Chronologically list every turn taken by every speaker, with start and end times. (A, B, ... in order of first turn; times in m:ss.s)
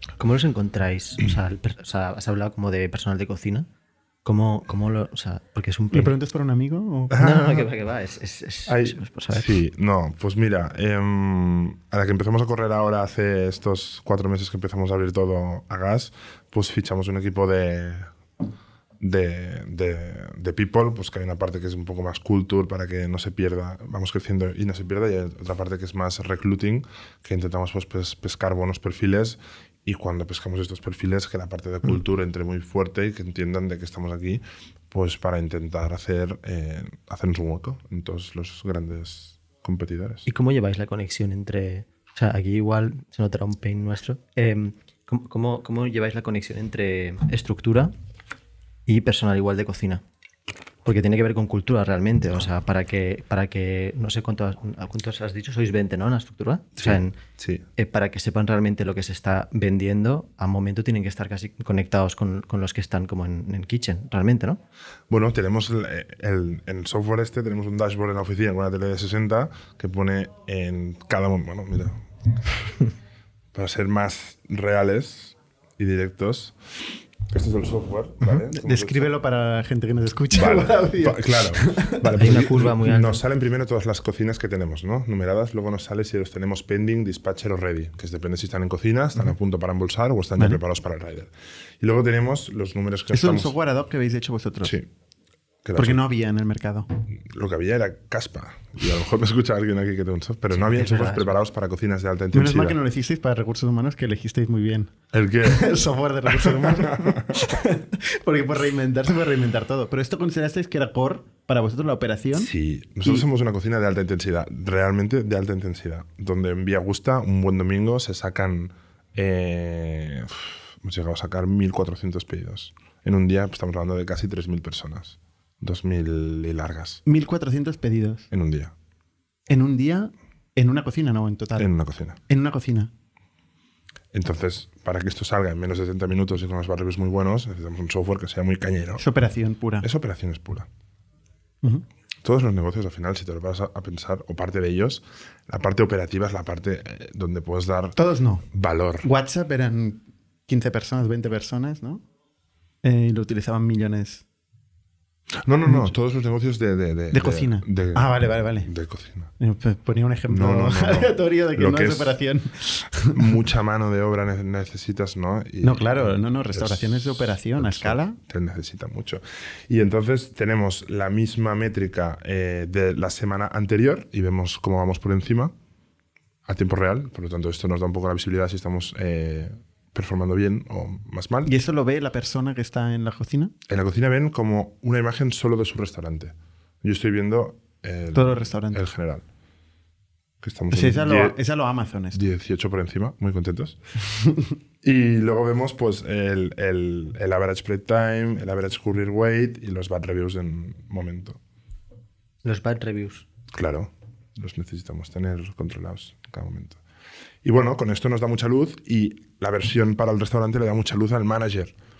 0:00.2-0:03.7 A
0:04.2-0:06.1 A
0:05.9-0:07.2 B
0:07.1-0:07.7 C
0:07.2-0:09.5 A
0:08.7-0:18.1 C
0:19.0-0:40.3 C
0:40.3-0:47.9 A
0:48.9-0:50.0 A
0:50.8-0:57.2 A
0:56.8-0:57.6 C
0:57.8-1:04.6 A
1:05.1-1:12.7 C
1:13.5-1:19.1 C
1:18.3-1:22.1 B
1:20.3-1:33.5 C
1:22.1-1:23.2 A
1:33.1-1:34.8 B
1:34.6-1:34.9 C
1:35.6-1:36.0 C
1:35.7-1:36.9 B
1:37.1-1:42.8 C
1:40.5-1:41.2 A
1:42.3-1:44.9 B
1:45.1-1:45.7 C
1:45.4-1:52.5 B
1:46.2-1:47.5 C
1:52.4-2:07.0 C
2:07.0-2:08.3 B
2:08.3-2:08.7 C
2:09.5-2:11.7 B
2:11.6-2:12.2 C
2:12.3-2:12.9 B
2:14.1-2:19.0 C
2:19.0-2:19.9 B
2:19.8-2:20.7 C
2:22.2-2:28.0 C
2:28.0-2:28.4 B
2:28.5-2:29.1 C
2:29.0-2:32.0 B
2:32.8-2:34.2 B
2:35.4-2:39.3 C
2:35.6-2:35.9 B
2:37.1-2:38.7 B
2:39.4-2:43.2 B
2:40.3-2:42.2 C
2:43.1-2:55.5 C
2:45.6-2:48.2 B
2:56.4-3:01.5 C
3:01.4-3:03.5 B
3:03.7-3:09.2 C
3:08.1-3:08.8 B
3:10.4-3:11.4 C
3:10.7-3:12.2 B
3:12.1-3:13.8 C
3:14.8-3:21.4 C
3:22.4-3:23.2 A
3:23.5-3:26.8 C
3:27.4-3:31.7 C